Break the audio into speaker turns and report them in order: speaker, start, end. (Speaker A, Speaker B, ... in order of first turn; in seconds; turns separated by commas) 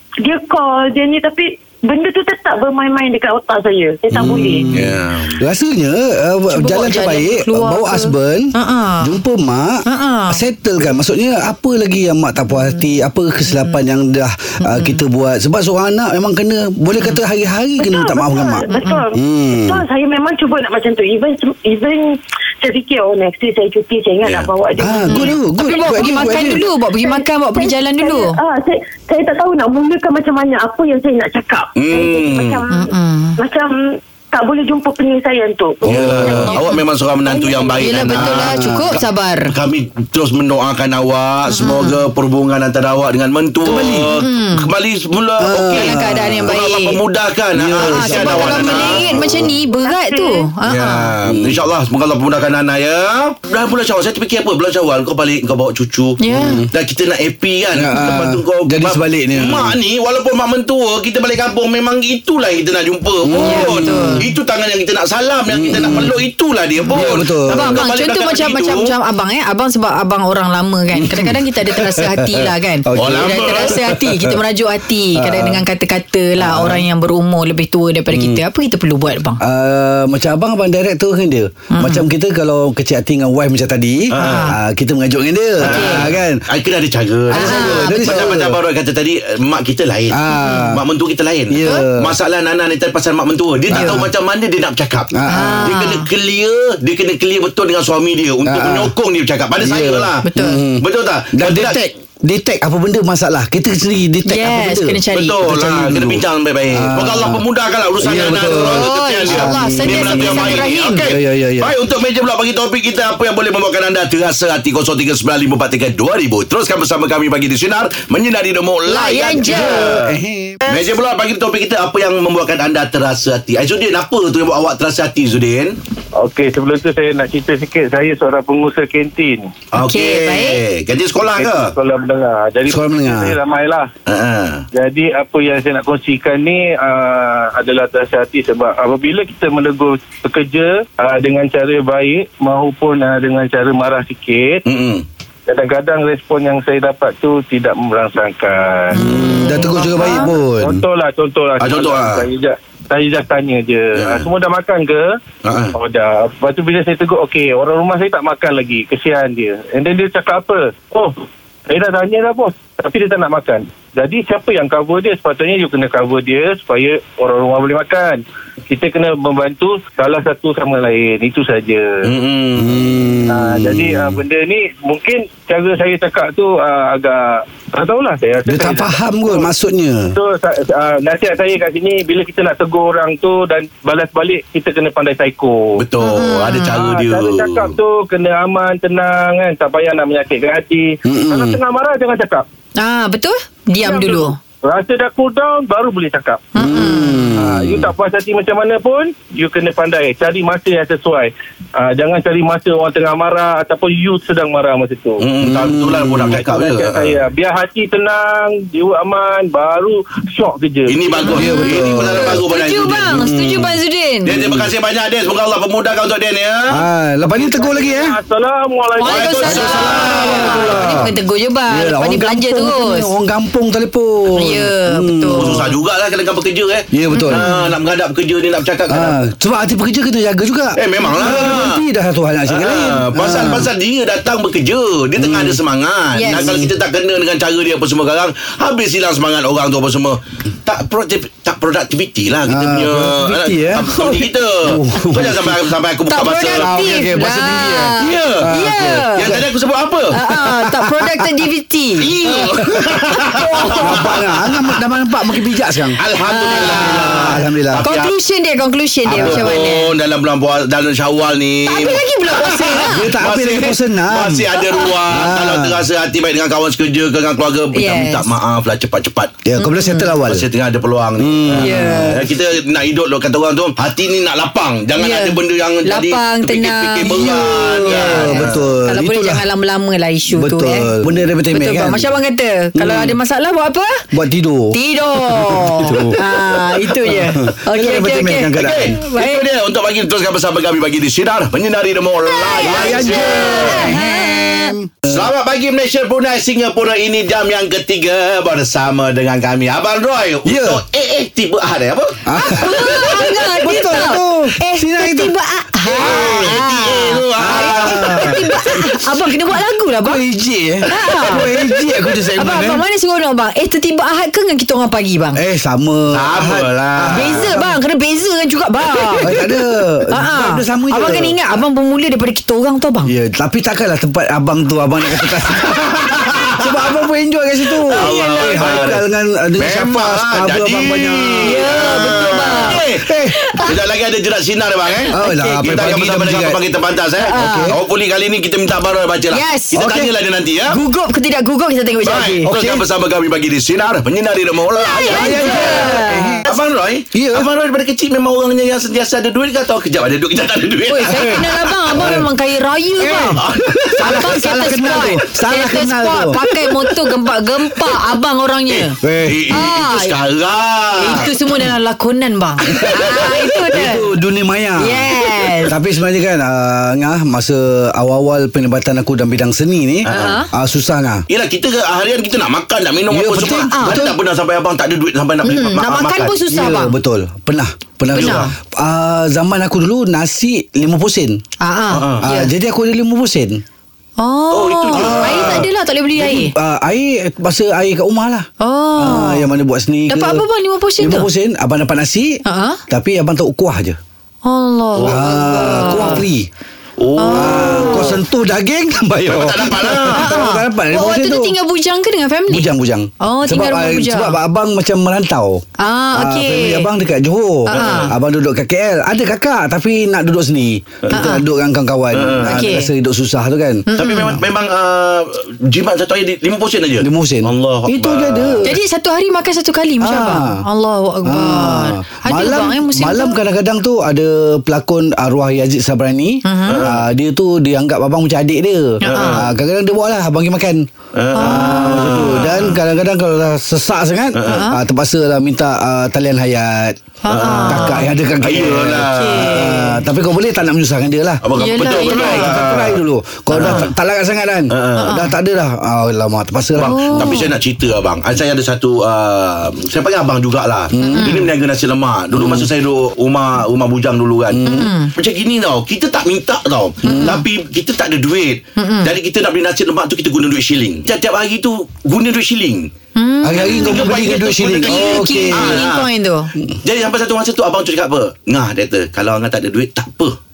Speaker A: 0.2-4.7, Speaker B: 4.1-4.8, Speaker C: 4.7-5.4, Speaker B: 5.4-19.8, Speaker D: 6.5-9.2, Speaker D: 9.8-10.4, Speaker D: 12.5-12.8, Speaker D: 13.5-13.8, Speaker D: 14.6-15.0, Speaker A: 17.8-36.7, Speaker D: 18.7-19.1, Speaker C: 24.2-24.5, Speaker B: 24.8-26.6, Speaker D: 25.0-28.4, Speaker C: 31.8-32.6, Speaker D: 32.7-33.4, Speaker B: 35.8-36.5, Speaker C: 35.8-49.2, Speaker D: 36.5-36.8, Speaker A: 37.2-38.3, Speaker D: 37.8-39.5, Speaker B: 38.2-38.9, Speaker D: 41.5-42.0, Speaker B: 43.6-44.1, Speaker D: 44.1-44.7, Speaker B: 45.4-46.5, Speaker D: 45.7-47.0, Speaker B: 47.5-49.5, Speaker D: 47.8-51.1, Speaker A: 49.4-50.5, Speaker C: 50.6-56.2, Speaker B: 51.2-51.6, Speaker D: 56.2-56.6, Speaker B: 56.3-56.7, Speaker C: 56.7-68.9, Speaker B: 57.7-59.8, Speaker B: 63.2-64.2, Speaker D: 63.4-64.2, Speaker B: 65.5-66.2, Speaker B: 66.9-67.8, Speaker D: 67.5-79.4, Speaker B: 71.0-74.4, Speaker C: 72.9-73.8, Speaker B: 75.1-75.6, Speaker B: 76.4-76.8, Speaker B: 78.1-78.4, Speaker B: 79.4-86.5, Speaker D: 81.7-82.0, Speaker C: 84.1-84.5, Speaker D: 84.2-84.5, Speaker C: 85.6-90.2, Speaker D: 85.6-86.1, Speaker B: 87.3-88.6, Speaker D: 87.3-88.2, Speaker B: 90.1-90.8, Speaker D: 90.3-90.7, Speaker C: 90.7-100.2, Speaker B: 91.5-92.1, Speaker B: 93.7-94.1, Speaker D: 93.7-94.0, Speaker B: 95.1-95.7, Speaker D: 95.3-96.0, Speaker B: 98.4-98.9, Speaker B: 99.6-107.4, Speaker D: 100.2-100.6, Speaker C: 100.8-101.8, Speaker D: 104.3-105.4, Speaker C: 105.1-120.1, Speaker B: 108.0-111.7, Speaker D: 108.7-111.1, Speaker D: 118.9-119.9, Speaker B: 119.4-120.6, Speaker C: 120.7-125.8, Speaker E: 126.2-129.5, Speaker C: 129.7-131.7, Speaker D: 129.8-130.6, Speaker E: 131.2-133.9, Speaker B: 132.7-133.4, Speaker C: 134.1-134.7, Speaker E: 134.7-144.6, Speaker C: 144.7-145.0, Speaker E: 145.5-149.0, Speaker D: 148.9-150.3, Speaker B: 148.9-150.8, Speaker E: 149.5-155.1, Speaker C: 151.6-152.2, Speaker C: 153.9-154.3, Speaker C: 155.4-155.7, Speaker E: 155.7-172.1, Speaker C: 172.0-173.0, Speaker B: 172.6-174.2, Speaker E: 173.3-179.5, Speaker B: 178.4-180.2, Speaker E: 180.1-185.8, Speaker C: 185.8-187.8, Speaker D: 186.0-186.8, Speaker E: 186.7-192.4, Speaker B: 191.0-191.6, Speaker D: 192.8-194.3, Speaker E: 193.8-196.5, Speaker D: 196.5-197.3, Speaker B: 196.6-197.9, Speaker E: 197.3-205.2, Speaker C: 205.2-207.2, Speaker B: 205.4-206.4, Speaker E: 206.3-211.2, Speaker C: 210.9-213.2, Speaker D: 211.2-214.3, Speaker B: 211.3-212.4, Speaker B: 213.1-213.8, Speaker C: 214.2-216.8, Speaker B: 214.3-214.7, Speaker B: 216.7-218.2, Speaker E: 217.2-220.6, Speaker D: 219.0-223.1, Speaker C: 219.0-221.1, Speaker B: 219.6-221.1, Speaker B: 221.7-225.7, Speaker D: 224.3-225.6, Speaker C: 225.3-229.2, Speaker B: 226.9-227.5, Speaker D: 227.1-227.7, Speaker B: 228.9-233.7, Speaker C: 230.8-231.8, Speaker C: 232.5-246.7, Speaker B: 235.2-235.6, Speaker D: 236.1-236.6, Speaker B: 236.3-236.7, Speaker B: 242.5-245.6, Speaker D: 246.1-249.3, Speaker B: 246.5-249.4, Speaker C: 248.0-248.5, Speaker C: 249.1-250.2, Speaker D: 250.1-252.1, Speaker B: 250.3-251.3, Speaker C: 252.0-254.6, Speaker B: 252.3-253.0, Speaker D: 253.3-254.1, Speaker B: 253.8-256.0, Speaker C: 256.0-258.1, Speaker D: 256.2-259.9, Speaker B: 256.5-257.8, Speaker B: 259.1-259.5, Speaker C: 259.1-269.4, Speaker D: 261.7-263.1, Speaker B: 262.8-265.8, Speaker D: 267.7-268.2, Speaker B: 269.4-270.5, Speaker D: 269.6-270.1, Speaker C: 270.2-278.7, Speaker B: 271.2-272.2, Speaker D: 271.5-272.2, Speaker D: 275.0-280.9, Speaker B: 277.0-279.4, Speaker B: 280.3-282.1, Speaker D: 281.5-284.0, Speaker B: 282.7-283.2, Speaker B: 284.1-286.2, Speaker D: 284.7-289.4, Speaker B: 287.0-288.9, Speaker C: 288.5-293.9, Speaker D: 292.2-294.8, Speaker B: 292.6-295.3, Speaker C: 295.1-302.7, Speaker B: 300.4-300.8, Speaker B: 302.2-306.6, Speaker D: 302.4-310.2, Speaker C: 305.9-308.4, Speaker B: 307.4-309.2, Speaker B: 310.0-312.8, Speaker D: 310.9-311.5, Speaker D: 312.4-315.4, Speaker B: 315.4-317.8, Speaker C: 316.1-317.4, Speaker D: 317.1-319.3, Speaker B: 319.2-321.4, Speaker D: 320.1-323.1, Speaker B: 323.1-326.0, Speaker C: 325.7-326.6, Speaker B: 326.5-331.7, Speaker D: 327.9-328.9, Speaker C: 327.9-329.0, Speaker C: 329.6-333.1, Speaker D: 331.4-333.8, Speaker B: 332.5-333.4, Speaker C: 333.6-340.8, Speaker D: 335.1-335.9, Speaker B: 335.1-336.6, Speaker D: 337.2-337.7, Speaker B: 337.3-337.8, Speaker D: 339.3-339.9, Speaker B: 339.7-340.1, Speaker D: 340.7-342.5, Speaker C: 342.0-351.5, Speaker B: 342.4-342.9, Speaker D: 344.8-346.5, Speaker B: 345.0-346.5, Speaker B: 347.1-347.5, Speaker D: 350.9-353.4, Speaker B: 351.1-352.3, Speaker B: 353.0-357.3, Speaker C: 353.3-354.3, Speaker D: 354.0-359.0, Speaker C: 358.7-361.3, Speaker B: 359.0-359.5, Speaker D: 359.5-360.1, Speaker D: 361.0-364.1, Speaker B: 362.7-365.1, Speaker C: 362.7-363.4, Speaker D: 364.8-365.7, Speaker B: 365.6-371.2, Speaker C: 370.1-370.4, Speaker D: 370.1-370.5, Speaker C: 371.3-376.4, Speaker B: 373.1-374.1, Speaker D: 373.7-374.1, Speaker D: 375.4-377.0, Speaker B: 376.5-381.4, Speaker D: 378.1-378.5, Speaker C: 378.1-378.4, Speaker D: 381.6-382.5, Speaker C: 381.9-382.2, Speaker B: 382.2-383.6, Speaker D: 384.2-386.5, Speaker C: 384.5-385.7, Speaker B: 384.9-388.4, Speaker D: 388.6-389.5, Speaker B: 389.0-390.4, Speaker D: 390.1-391.3, Speaker B: 391.0-394.0, Speaker D: 392.4-392.8, Speaker D: 394.4-396.2, Speaker B: 395.0-396.5, Speaker C: 397.0-398.2, Speaker D: 397.2-398.1, Speaker B: 397.3-401.5, Speaker C: 399.2-400.3, Speaker D: 400.1-402.7, Speaker B: 402.5-413.8, Speaker D: 403.2-404.4, Speaker D: 405.8-406.9, Speaker D: 407.7-408.1, Speaker C: 407.7-408.1, Speaker D: 411.1-411.4, Speaker C: 412.1-412.7, Speaker D: 412.4-412.9, Speaker D: 413.9-414.4, Speaker C: 413.9-418.7, Speaker B: 417.0-418.8, Speaker D: 418.6-423.4, Speaker B: 420.0-420.6, Speaker B: 421.2-437.0, Speaker D: 426.4-426.8, Speaker C: 426.6-427.1, Speaker D: 429.0-429.4, Speaker C: 429.1-429.5, Speaker C: 431.1-432.6, Speaker D: 431.4-432.8, Speaker C: 434.3-434.7, Speaker D: 434.4-434.8, Speaker D: 437.2-438.1, Speaker C: 437.3-439.8, Speaker B: 437.6-441.4, Speaker D: 439.1-440.0, Speaker C: 441.4-443.0, Speaker D: 441.5-442.6, Speaker B: 442.0-447.4, Speaker C: 443.5-443.9, Speaker D: 443.6-443.9, Speaker C: 444.7-445.2, Speaker D: 445.0-445.3, Speaker C: 446.8-462.9, Speaker D: 446.8-447.5, Speaker B: 450.9-451.4, Speaker D: 451.0-451.5, Speaker B: 452.3-452.7, Speaker B: 454.5-454.9, Speaker D: 454.6-455.1, Speaker D: 457.0-457.4, Speaker B: 457.0-457.4, Speaker D: 458.8-459.1, Speaker D: 463.1-466.5, Speaker B: 463.4-465.9, Speaker C: 463.5-466.1, Speaker C: 466.8-470.4